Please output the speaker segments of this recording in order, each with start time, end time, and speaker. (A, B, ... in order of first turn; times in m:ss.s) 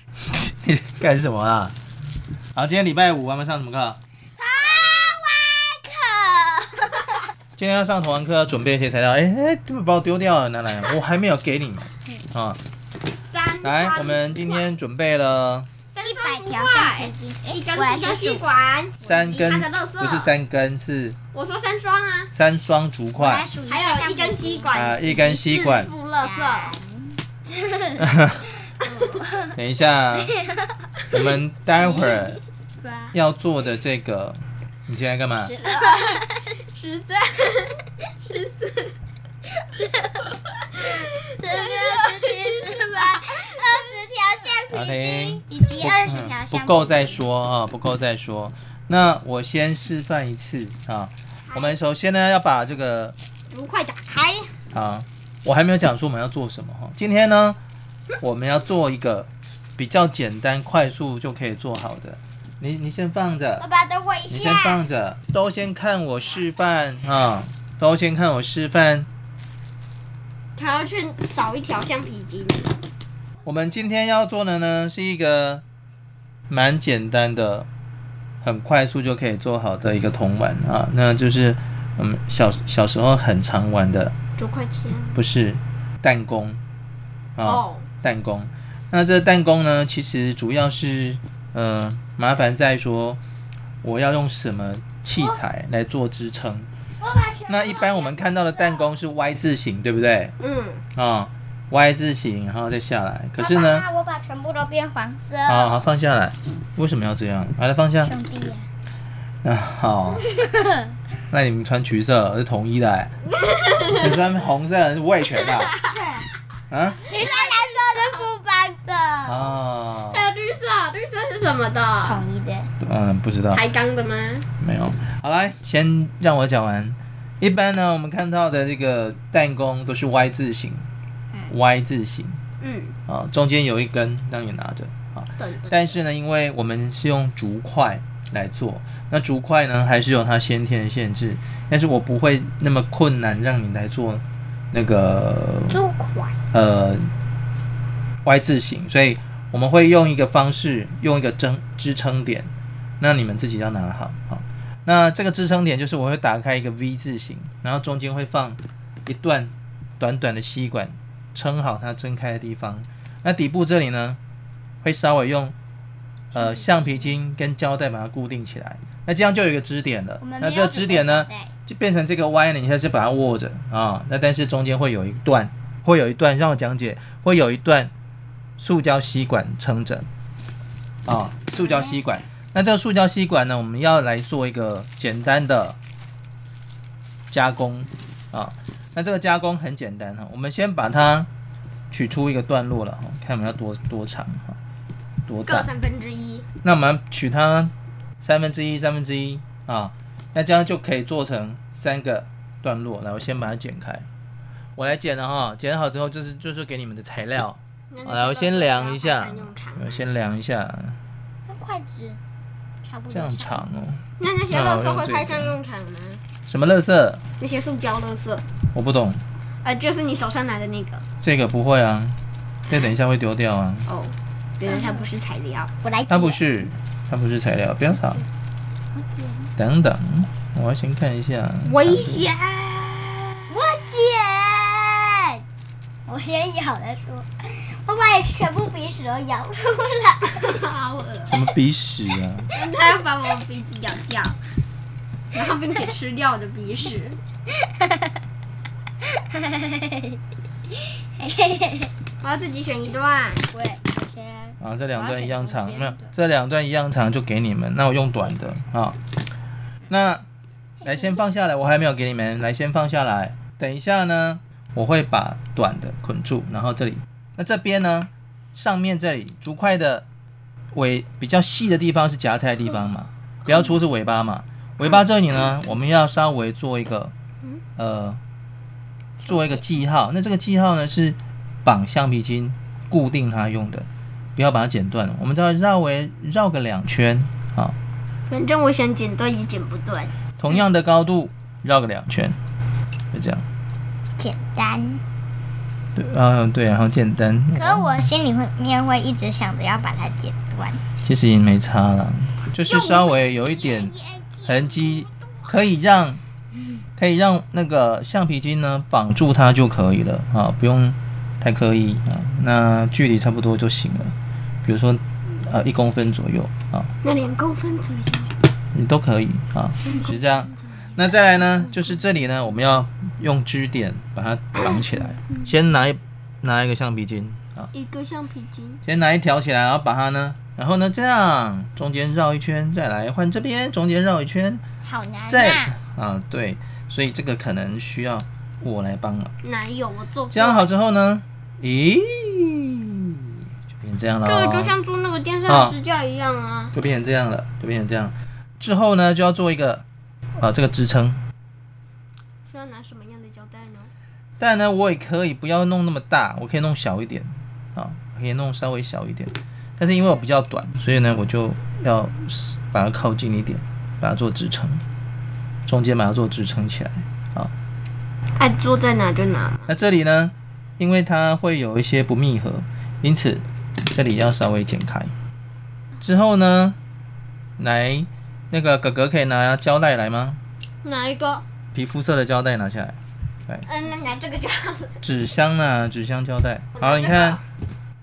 0:00.3-0:01.7 A
0:02.5-0:04.0 A
0:04.4-0:07.2 B
0:07.6-0:12.6 A
0:13.3-0:14.6 C
0:13.6-0:15.7 A
0:15.9-0:20.3 C
0:16.0-0:18.4 B
0:19.0-0:21.2 A
0:21.3-0:22.3 C
0:22.3-0:23.5 A
0:23.2-0:24.7 B
0:23.7-0:26.8 C
0:24.7-0:25.9 A
0:26.2-0:28.0 B
0:28.0-0:28.4 A
0:28.8-0:29.3 C
0:29.3-0:29.5 B
0:29.5-0:30.4 A
0:30.2-0:30.5 B
0:31.1-0:32.4 A
0:31.9-0:32.2 B
0:32.8-0:33.1 B
0:33.1-0:35.5 A
0:35.4-0:36.5 B
0:35.6-0:38.9 C
0:39.7-0:40.2 B
0:40.2-0:43.3 C
0:40.8-0:47.2 B
0:44.7-0:53.2 A
0:53.5-0:54.5 C
0:54.7-0:57.6 A
0:58.2-1:03.6 A
1:03.6-1:04.8 B
1:04.3-1:09.1 A
1:10.6-1:12.8 C
1:13.4-1:15.6 A
1:16.5-1:17.7 A
1:18.4-1:24.1 A
1:24.4-1:25.2 C
1:25.1-1:26.6 A
1:27.4-1:33.2 A
1:27.4-1:27.8 C
1:33.8-1:36.7 A
1:37.0-1:38.9 B
1:37.5-1:40.3 A
1:40.4-1:40.8 C
1:40.9-1:43.8 A
1:43.4-1:45.8 B
1:45.4-1:48.1 A
1:48.0-1:48.7 B
1:49.4-1:50.3 A
1:50.3-1:50.9 B
1:51.3-1:53.1 A
1:53.4-1:54.2 C
1:54.0-1:55.7 A
1:55.9-1:56.3 B
1:56.7-1:57.0 A
1:57.1-1:59.6 B
1:57.1-1:58.2 C
1:59.2-2:00.3 A
2:00.1-2:02.2 C
2:02.0-2:02.7 B
2:02.8-2:03.6 A
2:03.5-2:04.5 C
2:04.6-2:10.9 A
2:11.5-2:12.4 A
2:12.6-2:13.0 C
2:13.1-2:25.8 A
2:15.4-2:16.0 C
2:25.7-2:26.4 B
2:26.5-2:27.1 A
2:28.2-2:44.2 A
2:44.8-2:45.5 A
2:46.3-2:47.1 B
2:46.3-2:57.9 A
2:50.2-2:51.5 B
2:58.6-3:00.1 A
3:01.0-3:05.8 A
3:01.5-3:02.0 B
3:07.3-3:11.3 A
3:11.9-3:14.6 A
3:15.3-3:15.7 A
3:15.4-3:16.4 C
3:16.6-3:24.1 A
3:24.8-3:31.0 A
3:27.9-3:29.9 C
3:31.5-3:32.2 B
3:32.8-3:33.6 B
3:33.1-3:35.6 A
3:34.2-3:36.2 C
3:36.5-3:37.2 A
3:37.4-3:38.4 C
3:38.7-3:39.2 A
3:39.6-3:41.0 C
3:41.2-3:43.8 A
3:43.9-3:45.7 C
3:44.7-3:45.1 B
3:45.8-3:46.4 B
3:46.1-3:48.2 A
3:49.0-3:49.5 B
3:49.6-3:52.3 A
3:51.6-3:53.6 C
3:53.5-3:55.4 B
3:56.0-4:00.6 B
4:00.3-4:01.4 C
4:01.3-4:02.5 A
4:02.5-4:04.4 C
4:05.3-4:07.2 C
4:07.8-4:08.0 B
4:09.0-4:10.2 B
4:11.2-4:11.9 B
4:12.2-4:13.5 C
4:13.5-4:16.1 B
4:14.6-4:19.0 A
4:19.9-4:20.2 A
4:20.8-4:21.2 B
4:20.8-4:30.0 A
4:30.7-4:37.1 A
4:37.8-4:38.2 A
4:39.2-4:47.8 A
4:39.3-4:39.6 B
4:48.3-4:50.1 C
4:50.4-4:52.4 A
4:53.1-4:53.4 A
4:54.2-4:55.0 B
4:56.0-4:58.0 A
4:57.5-5:00.8 B
5:01.0-5:03.9 A
5:02.6-5:05.5 C
5:04.4-5:06.2 A
5:07.0-5:16.9 A
5:17.0-5:18.3 C
5:18.7-5:27.7 A
5:19.8-5:20.1 C
5:24.6-5:24.8 C
5:27.7-5:28.8 C
5:28.8-5:34.6 A
5:34.8-5:35.7 B
5:35.3-5:39.3 A
5:39.4-5:40.7 C
5:40.3-5:44.7 A
5:44.2-5:46.7 C
5:45.5-5:45.8 A
5:46.7-5:49.8 A
5:50.4-5:51.2 A
5:52.4-5:53.9 C
5:54.4-6:04.8 A
6:05.6-6:07.5 A
6:08.4-6:09.7 C
6:09.7-6:15.1 A
6:16.0-6:16.8 A
6:17.6-6:20.4 A
6:20.8-6:21.4 C
6:21.7-6:23.6 A
6:23.6-6:25.0 C
6:25.0-6:27.4 A
6:26.7-6:27.4 C